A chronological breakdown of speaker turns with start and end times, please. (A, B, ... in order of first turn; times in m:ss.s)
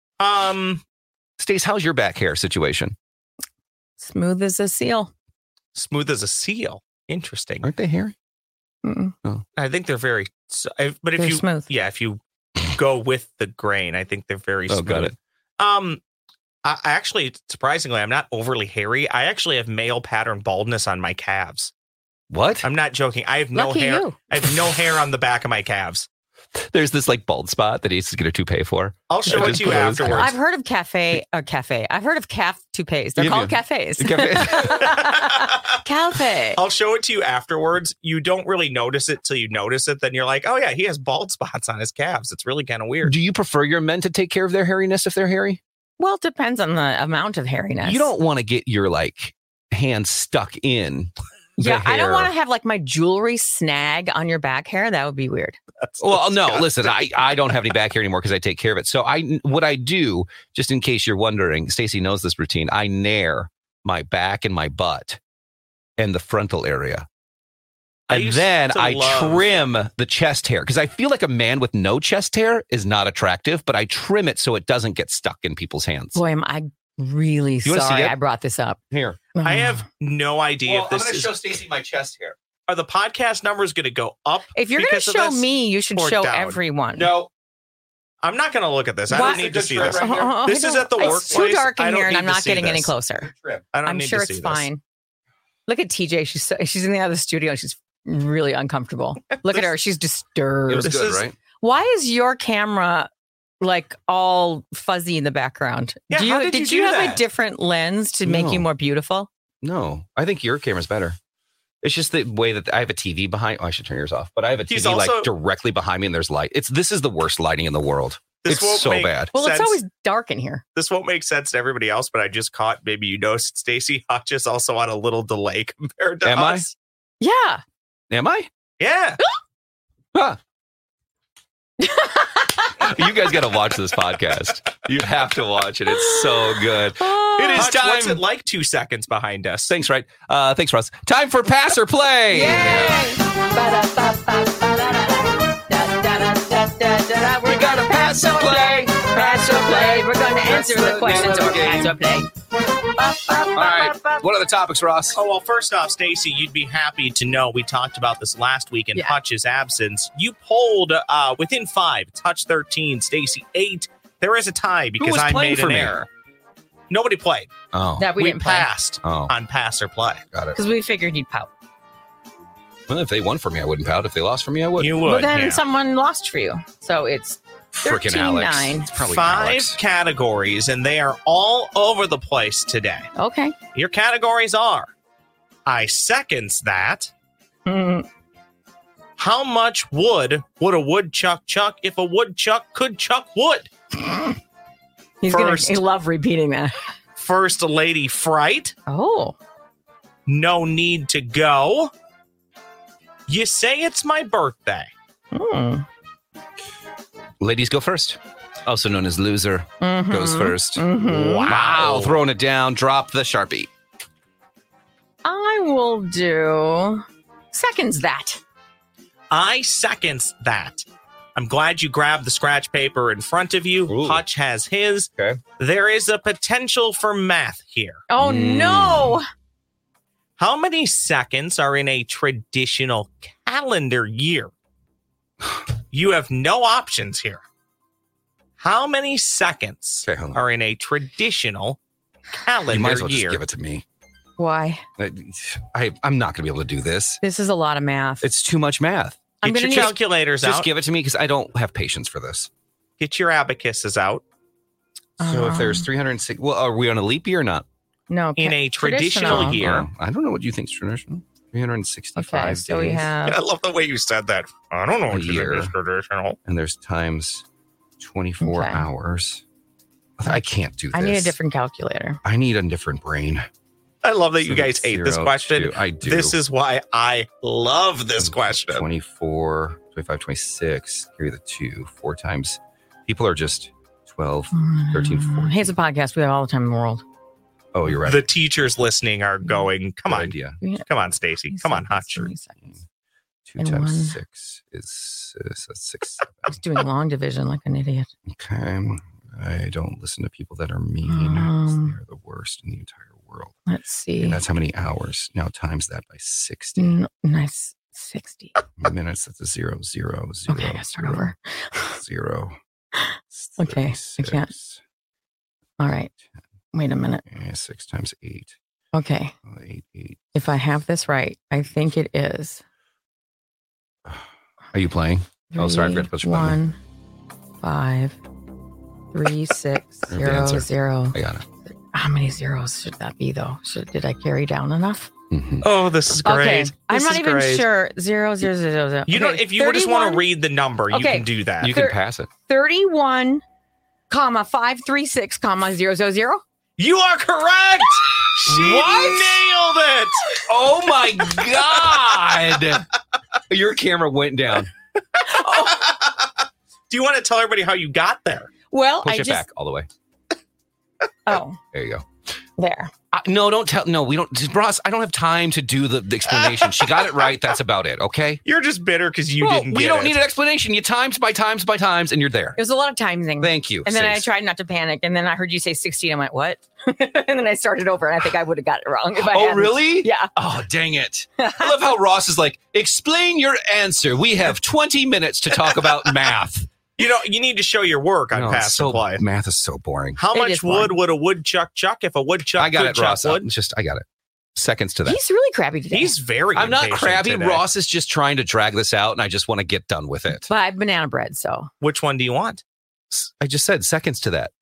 0:00.2-0:00.8 A
0:01.4-0:03.0 B
0:04.0-0:05.1 C
0:05.7-0:07.7 A
0:07.6-0:08.1 B
0:08.8-0:09.1 C
0:09.6-0:16.0 A
0:11.2-0:11.7 C
0:14.7-0:15.1 B
0:16.6-0:21.7 A
0:22.3-0:22.7 B
0:22.6-0:26.1 A
0:23.5-0:24.2 C
0:26.6-0:30.3 B
0:29.1-0:30.4 A
0:29.3-0:36.6 C
0:33.2-0:34.8 B
0:34.6-0:35.7 A
0:36.5-0:43.1 A
0:43.0-0:45.6 B
0:46.0-0:48.1 C
0:47.8-0:52.3 B
0:51.6-0:55.6 C
0:55.8-0:57.1 A
0:56.0-1:05.2 B
1:06.0-1:07.1 B
1:08.1-1:09.4 A
1:08.1-1:16.2 B
1:16.1-1:18.8 C
1:17.6-1:18.2 B
1:18.9-1:19.2 B
1:19.3-1:19.8 C
1:19.4-1:21.3 A
1:20.6-1:22.4 B
1:22.7-1:26.6 A
1:24.5-1:27.1 C
1:26.9-1:27.3 B
1:28.2-1:32.9 A
1:29.1-1:30.4 B
1:29.1-1:33.3 C
1:31.0-1:31.4 B
1:33.2-1:33.6 B
1:33.7-1:34.7 A
1:33.8-1:34.8 C
1:35.7-1:41.0 C
1:40.7-1:41.4 B
1:40.8-1:41.2 A
1:41.6-1:43.1 C
1:43.6-1:49.3 C
1:46.1-1:47.2 A
1:48.2-1:48.6 B
1:49.6-1:51.2 B
1:51.8-1:59.3 B
1:54.7-1:55.3 A
1:58.4-1:59.8 A
1:59.3-2:00.6 C
2:00.7-2:06.7 A
2:06.2-2:06.6 B
2:07.2-2:07.6 C
2:08.1-2:08.5 B
2:08.8-2:09.2 A
2:10.1-2:10.4 B
2:11.8-2:12.8 C
2:12.7-2:18.2 B
2:15.9-2:17.7 C
2:17.5-2:19.7 A
2:19.7-2:23.1 B
2:22.3-2:32.3 C
2:27.4-2:32.0 B
2:32.9-2:34.2 C
2:33.5-2:35.2 B
2:35.1-2:46.1 A
2:45.0-2:45.9 B
2:46.9-2:47.5 A
2:47.7-2:48.2 B
2:48.0-2:48.7 C
2:48.2-2:50.2 A
2:49.0-2:49.3 B
2:50.3-2:50.6 B
2:50.5-2:51.5 C
2:52.9-2:55.0 B
2:54.8-2:55.6 A
2:55.0-2:58.9 C
2:57.7-2:59.8 B
2:59.0-3:03.1 A
3:03.2-3:03.5 C
3:03.7-3:04.9 A
3:05.6-3:07.1 A
3:07.6-3:08.1 C
3:09.2-3:13.7 A
3:14.0-3:14.3 C
3:15.2-3:16.9 C
3:15.3-3:15.8 A
3:17.2-3:18.7 A
3:18.9-3:19.4 C
3:20.3-3:21.9 A
3:23.3-3:24.9 A
3:25.3-3:25.8 C
3:27.4-3:30.8 B
3:29.8-3:31.5 C
3:31.0-3:32.2 A
3:31.4-3:33.7 B
3:35.2-3:38.4 C
3:39.3-3:40.8 A
3:41.4-3:48.0 A
3:43.9-3:44.2 B
3:45.2-3:45.4 B
3:48.1-3:49.3 C
3:48.2-3:49.2 B
3:50.4-3:54.5 A
3:55.9-3:57.4 A
3:58.6-4:01.8 A
4:00.0-4:00.4 B
4:02.4-4:03.4 A
4:02.7-4:03.8 B
4:04.4-4:04.8 C
4:05.0-4:07.2 B
4:07.2-4:08.3 C
4:08.2-4:12.5 B
4:09.4-4:09.9 C
4:09.4-4:10.7 A
4:13.0-4:14.2 A
4:15.2-4:15.9 C
4:15.2-4:17.6 B
4:18.1-4:19.6 C
4:18.4-4:19.9 A
4:19.2-4:23.1 B
4:22.2-4:23.4 C
4:23.2-4:26.4 A
4:25.1-4:25.7 B
4:26.4-4:27.4 B
4:28.0-4:29.4 B
4:28.4-4:28.8 C
4:30.2-4:31.4 B
4:30.9-4:32.2 C
4:32.2-4:33.5 B
4:34.0-4:38.9 A
4:34.4-4:36.4 B
4:38.2-4:45.7 B
4:44.5-4:47.0 C
4:47.7-4:48.2 B
4:48.0-4:50.4 A
4:50.1-4:50.6 B
4:50.9-4:52.3 A
4:51.5-4:52.8 C
4:53.4-4:56.6 B
4:53.6-4:54.2 C
4:56.5-4:58.1 C
4:58.3-5:03.5 B
5:01.0-5:02.0 C
5:03.7-5:04.4 C
5:04.2-5:07.0 B
5:06.8-5:08.6 C
5:08.8-5:11.3 B
5:10.5-5:12.0 C
5:11.9-5:12.5 B
5:13.0-5:14.5 C
5:13.3-5:14.8 B
5:15.8-5:16.1 C
5:16.7-5:17.2 C
5:17.2-5:18.5 B
5:18.9-5:19.3 C
5:19.4-5:20.2 B
5:20.3-5:22.6 C
5:24.0-5:26.6 B
5:25.5-5:26.8 C
5:27.6-5:28.2 C
5:29.1-5:31.2 C
5:30.1-5:31.4 B
5:31.9-5:35.1 C
5:35.3-5:35.7 B
5:35.6-5:37.7 A
5:36.2-5:40.2 C
5:39.1-5:41.7 A
5:40.9-5:43.4 C
5:41.6-5:42.3 B
5:44.1-5:46.4 C
5:46.8-5:50.4 A
5:48.5-5:49.4 B
5:50.5-5:52.9 B
5:53.5-5:54.7 B
5:55.2-5:56.3 A
5:55.2-5:55.8 C
5:56.9-5:58.5 A
5:58.7-5:59.4 C
5:59.0-5:59.9 B
6:01.2-6:01.6 C
6:01.7-6:02.1 B
6:02.6-6:02.9 C
6:03.1-6:08.4 B
6:08.4-6:10.2 A
6:09.4-6:12.6 B
6:12.6-6:20.3 C
6:13.4-6:14.3 B
6:19.2-6:26.7 B
6:21.4-6:21.8 C
6:27.0-6:29.2 A
6:28.3-6:30.2 B
6:30.2-6:33.4 A
6:30.3-6:31.0 C
6:32.6-6:35.2 B
6:35.0-6:36.1 C
6:35.9-6:37.6 A
6:36.5-6:40.5 B
6:40.4-6:41.7 C
6:41.8-6:42.6 A
6:43.1-6:44.5 B